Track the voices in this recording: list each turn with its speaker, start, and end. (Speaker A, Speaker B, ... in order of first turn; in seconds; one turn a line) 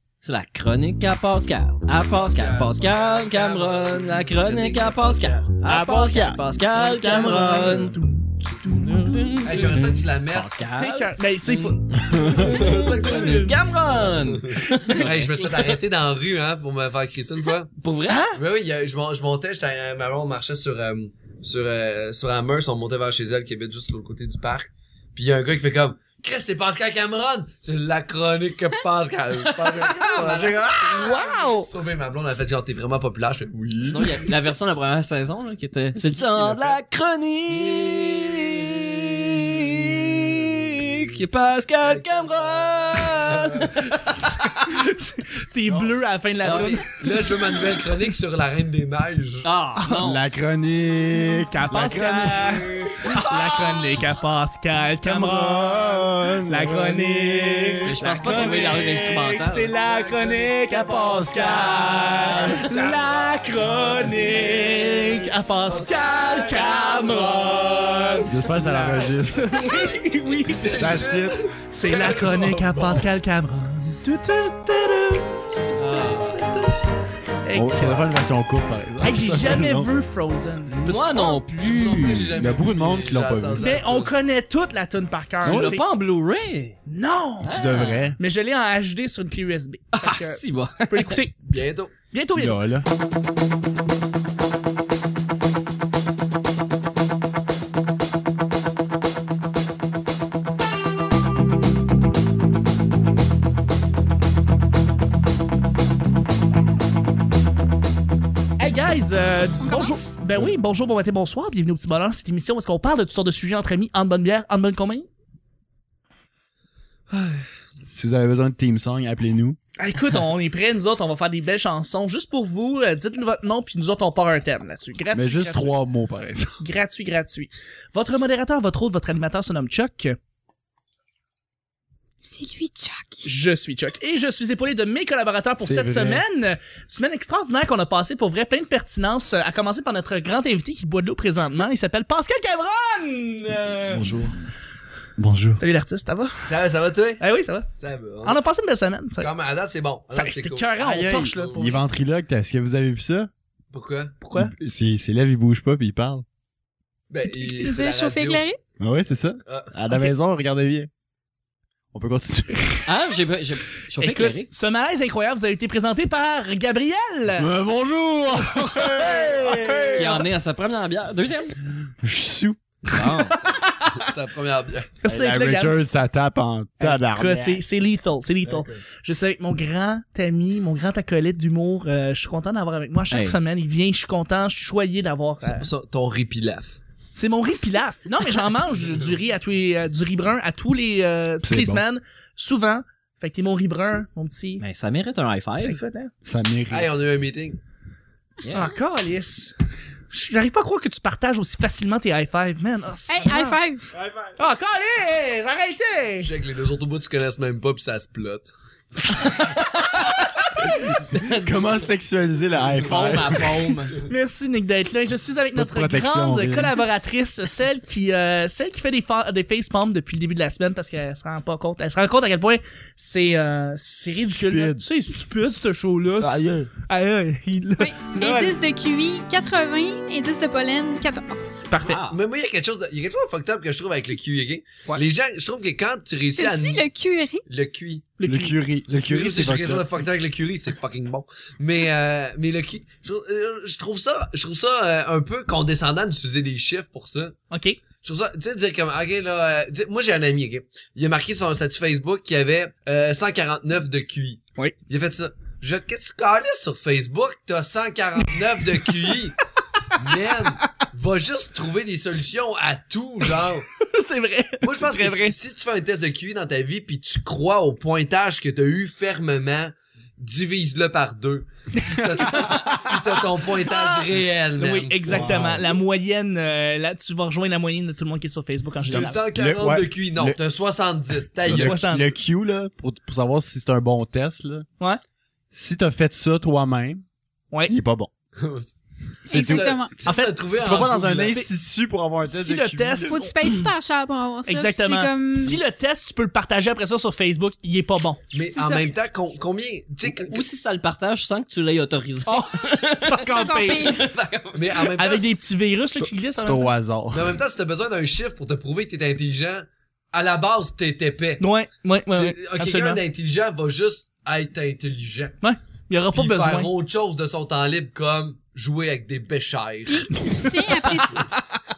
Speaker A: 0.2-8.0
Speaker B: 2.1-5.5
Speaker C: 5.6-7.9
Speaker D: 7.2-9.4
Speaker A: 8.6-15.6
Speaker B: 9.4-10.5
Speaker D: 10.8-13.4
Speaker C: 11.9-12.6
Speaker B: 12.2-13.6
Speaker B: 14.1-17.7
Speaker D: 14.7-15.0
Speaker A: 17.8-18.2
Speaker D: 18.1-18.4
Speaker B: 18.3-34.3
Speaker A: 29.4-30.8
Speaker D: 30.6-31.7
Speaker A: 33.8-44.7
Speaker B: 36.3-36.8
Speaker B: 37.5-41.2
Speaker B: 41.8-44.0
Speaker D: 44.3-46.9
Speaker A: 46.4-46.8
Speaker B: 47.0-49.5
Speaker A: 49.4-50.2
Speaker C: 50.0-52.6
Speaker D: 51.5-70.8
Speaker B: 52.2-53.8
Speaker C: 55.0-58.6
Speaker A: 57.8-59.7
Speaker B: 59.8-68.3
Speaker C: 60.9-62.6
Speaker C: 68.2-69.5
Speaker B: 70.5-73.0
Speaker C: 70.7-71.5
Speaker D: 71.7-76.8
Speaker A: 75.8-76.4
Speaker D: 77.4-78.1
Speaker C: 77.5-79.9
Speaker D: 79.0-81.4
Speaker A: 80.7-82.2
Speaker C: 81.6-83.7
Speaker B: 81.6-84.1
Speaker D: 83.6-85.8
Speaker C: 85.4-85.8
Speaker A: 85.4-86.8
Speaker D: 86.9-87.5
Speaker A: 87.4-88.1
Speaker C: 87.5-88.2
Speaker D: 88.2-91.3
Speaker A: 89.9-91.2
Speaker B: 91.5-91.9
Speaker D: 92.1-92.6
Speaker C: 92.3-92.9
Speaker D: 108.6-115.1
Speaker E: 109.6-110.2
Speaker C: 117.9-119.6
Speaker D: 119.8-125.7
Speaker C: 125.1-126.6
Speaker D: 126.6-130.2
Speaker E: 132.2-133.3
Speaker D: 133.2-144.1
Speaker C: 135.6-136.2
Speaker B: 143.9-144.3
Speaker C: 145.2-145.6
Speaker D: 145.6-146.5
Speaker B: 146.4-147.2
Speaker D: 147.2-147.7
Speaker B: 147.8-148.4
Speaker D: 148.2-149.3
Speaker B: 149.2-151.8
Speaker D: 150.1-151.8
Speaker C: 150.8-153.3
Speaker B: 153.7-154.2
Speaker D: 154.2-154.5
Speaker C: 154.3-156.2
Speaker B: 157.1-158.4
Speaker E: 157.2-158.6
Speaker C: 158.8-160.9
Speaker B: 159.4-159.7
Speaker C: 161.9-162.6
Speaker A: 162.8-164.5
Speaker D: 164.0-167.5
Speaker C: 167.4-170.2
Speaker D: 168.7-170.2
Speaker A: 168.8-169.2
Speaker A: 169.9-171.6
Speaker C: 172.0-172.6
Speaker A: 172.9-173.4
Speaker D: 173.4-173.9
Speaker B: 173.9-174.9
Speaker D: 175.0-175.8
Speaker C: 175.0-177.6
Speaker D: 176.8-185.7
Speaker A: 183.1-183.4
Speaker B: 185.4-186.8
Speaker D: 187.1-194.6
Speaker C: 191.4-191.8
Speaker A: 194.6-195.8
Speaker D: 195.6-196.1
Speaker C: 196.2-196.9
Speaker B: 196.7-197.6
Speaker A: 198.4-198.7
Speaker D: 198.5-199.5
Speaker D: 200.1-203.6
Speaker E: 203.1-203.9
Speaker D: 204.4-206.3
Speaker B: 206.2-208.5
Speaker C: 210.6-213.7
Speaker A: 211.1-211.7
Speaker A: 212.8-213.9
Speaker B: 212.9-213.4
Speaker D: 214.0-228.6
Speaker C: 215.5-216.7
Speaker C: 224.4-224.8
Speaker C: 226.2-226.7
Speaker E: 227.8-231.7
Speaker D: 231.7-232.0
Speaker A: 231.8-232.2
Speaker B: 232.1-236.9
Speaker E: 236.3-237.4
Speaker B: 237.5-238.1
Speaker D: 238.2-238.6
Speaker C: 238.2-239.9
Speaker B: 238.9-247.3
Speaker D: 247.5-247.8
Speaker B: 248.0-259.4
Speaker B: 259.9-263.7
Speaker D: 263.8-265.4
Speaker B: 264.6-275.6
Speaker D: 272.0-272.6
Speaker D: 273.6-279.2
Speaker C: 275.1-275.7
Speaker B: 278.8-281.8
Speaker C: 278.9-280.4
Speaker C: 281.4-284.7
Speaker D: 281.5-282.1
Speaker C: 285.5-287.0
Speaker C: 287.7-288.1
Speaker B: 288.4-291.4
Speaker E: 289.3-290.0
Speaker C: 289.3-289.8
Speaker D: 290.0-290.5
Speaker C: 290.5-293.2
Speaker D: 291.1-291.5
Speaker D: 292.2-293.7
Speaker E: 293.1-295.6
Speaker D: 294.4-298.2
Speaker B: 298.3-300.4
Speaker E: 298.5-298.9
Speaker A: 300.1-304.9
Speaker D: 302.2-304.0
Speaker E: 303.1-304.1
Speaker B: 304.5-305.4
Speaker D: 304.9-306.7
Speaker C: 306.4-307.4
Speaker B: 307.1-311.4
Speaker D: 311.4-313.0
Speaker B: 312.1-315.4
Speaker D: 315.4-316.7
Speaker B: 316.1-320.5
Speaker E: 319.9-321.3
Speaker D: 320.3-321.3